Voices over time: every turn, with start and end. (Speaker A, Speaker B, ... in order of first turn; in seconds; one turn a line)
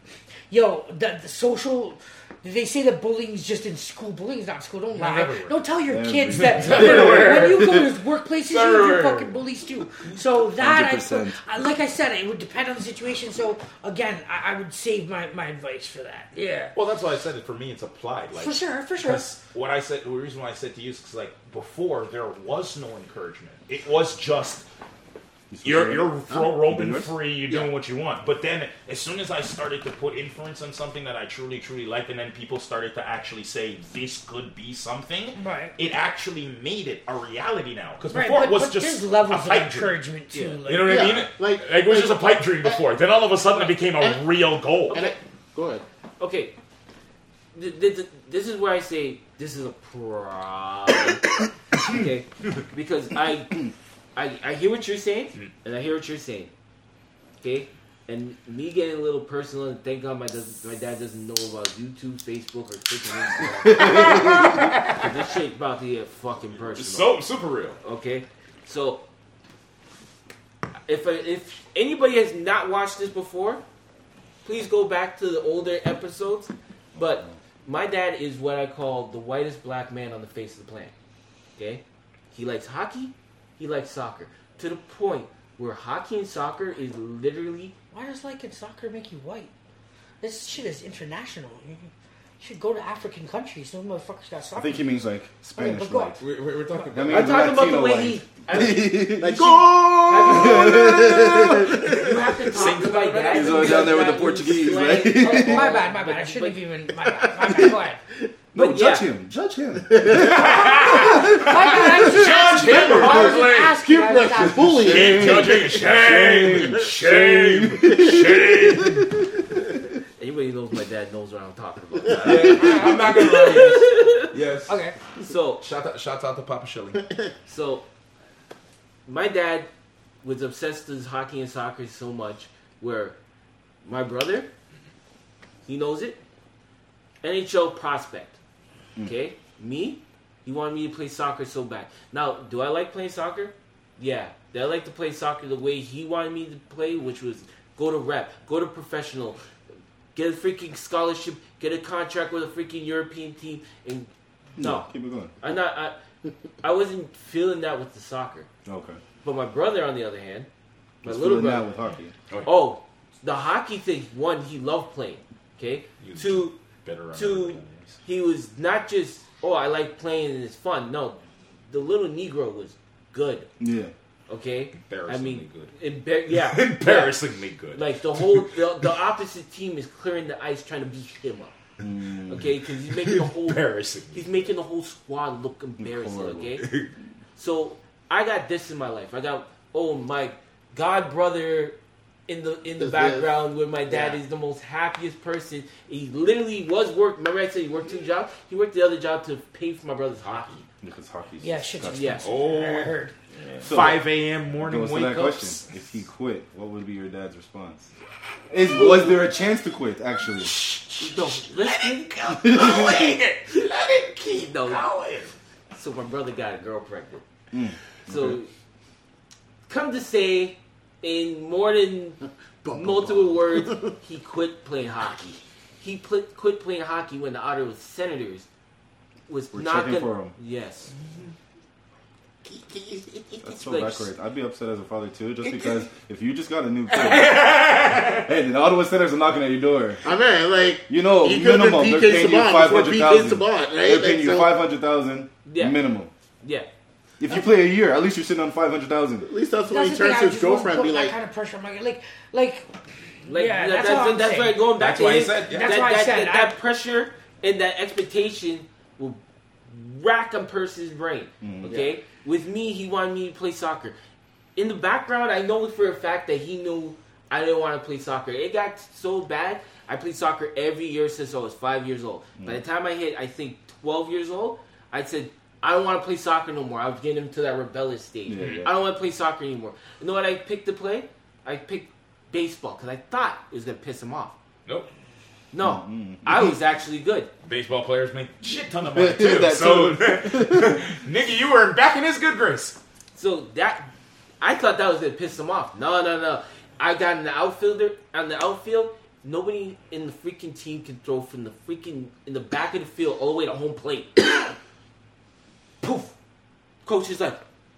Speaker A: 0.5-16.8
Speaker B: 4.9-5.6
Speaker C: 5.9-7.8
Speaker B: 6.4-7.7
Speaker B: 8.5-9.4
Speaker C: 10.6-11.4
Speaker B: 16.7-24.7
Speaker A: 18.3-19.3
Speaker C: 25.5-26.1
Speaker B: 25.6-40.0
Speaker C: 26.6-27.1
Speaker A: 35.4-35.8
Speaker A: 38.1-41.1
Speaker D: 40.3-40.6
Speaker B: 40.6-45.1
Speaker E: 40.8-42.8
Speaker E: 44.9-45.8
Speaker D: 44.9-45.1
Speaker D: 46.2-46.5
Speaker D: 47.5-56.5
Speaker D: 57.4-67.2
Speaker C: 63.7-64.5
Speaker B: 63.7-65.2
Speaker B: 66.7-67.8
Speaker D: 67.8-69.0
Speaker D: 70.9-73.6
Speaker D: 74.4-80.9
Speaker C: 77.0-77.3
Speaker D: 81.6-87.7
Speaker A: 87.9-89.5
Speaker A: 90.2-94.9
Speaker C: 94.6-96.2
Speaker A: 95.5-96.9
Speaker B: 96.2-97.7
Speaker C: 96.9-99.5
Speaker D: 97.0-106.6
Speaker E: 99.2-102.5
Speaker C: 100.2-102.0
Speaker B: 102.5-104.1
Speaker C: 103.3-105.8
Speaker A: 105.2-108.0
Speaker C: 108.5-111.6
Speaker D: 108.5-109.1
Speaker E: 109.9-111.1
Speaker B: 110.1-113.8
Speaker A: 111.4-114.9
Speaker E: 113.0-115.8
Speaker C: 114.3-119.3
Speaker B: 114.8-119.2
Speaker E: 117.8-118.4
Speaker D: 120.2-124.3
Speaker B: 122.1-124.9
Speaker E: 122.2-122.5
Speaker C: 122.3-122.8
Speaker A: 122.6-123.0
Speaker A: 124.7-124.9
Speaker D: 125.2-125.6
Speaker B: 125.6-127.1
Speaker E: 127.0-127.3
Speaker D: 127.5-127.8
Speaker D: 129.1-129.7
Speaker D: 130.2-133.2
Speaker D: 133.8-134.5
Speaker D: 135.6-136.2
Speaker D: 137.2-138.4
Speaker D: 139.0-149.4
Speaker D: 150.1-156.0
Speaker C: 154.6-155.3
Speaker D: 156.6-158.5
Speaker C: 158.7-159.0
Speaker D: 159.2-160.5
Speaker D: 161.0-161.7
Speaker C: 161.0-162.1
Speaker D: 162.4-166.6
Speaker B: 166.0-168.0
Speaker D: 167.1-173.5
Speaker C: 173.6-173.9
Speaker D: 174.3-177.2
Speaker B: 174.7-175.7
Speaker B: 176.3-178.5
Speaker D: 177.7-181.6
Speaker C: 181.8-182.5
Speaker D: 182.2-186.6
Speaker B: 183.0-184.3
Speaker C: 185.8-186.5
Speaker B: 186.6-186.9
Speaker D: 187.3-191.8
Speaker D: 192.3-200.6
Speaker E: 192.8-194.2
Speaker B: 200.2-200.6
Speaker C: 200.8-202.2
Speaker A: 201.4-203.1
Speaker D: 201.9-202.3
Speaker B: 202.2-202.9
Speaker D: 203.4-203.9
Speaker B: 203.6-205.7
Speaker C: 203.6-207.9
Speaker C: 208.5-210.5
Speaker D: 208.7-209.2
Speaker B: 210.4-215.3
Speaker D: 211.0-214.9
Speaker C: 212.4-212.9
Speaker D: 215.7-217.2
Speaker C: 217.5-218.4
Speaker D: 218.0-218.5
Speaker D: 219.7-228.5
Speaker E: 222.6-223.9
Speaker D: 229.3-230.9
Speaker C: 229.5-230.3
Speaker B: 231.1-231.3
Speaker D: 232.4-234.1
Speaker C: 233.4-240.0
Speaker B: 236.9-238.3
Speaker E: 240.0-244.5
Speaker C: 240.9-246.1
Speaker D: 245.4-245.8
Speaker D: 246.4-246.7
Speaker C: 247.2-249.3
Speaker E: 249.2-251.1
Speaker A: 249.7-254.6
Speaker D: 253.3-263.9
Speaker B: 254.8-255.9
Speaker A: 255.4-256.5
Speaker C: 261.4-261.8
Speaker E: 261.6-261.9
Speaker D: 264.6-284.4
Speaker C: 278.2-278.7
Speaker B: 278.4-278.7
Speaker D: 285.5-287.3
Speaker C: 285.6-286.6
Speaker B: 287.4-292.8
Speaker C: 288.9-290.8
Speaker D: 293.1-293.9
Speaker D: 294.4-304.5
Speaker D: 305.8-306.1
Speaker D: 306.8-307.4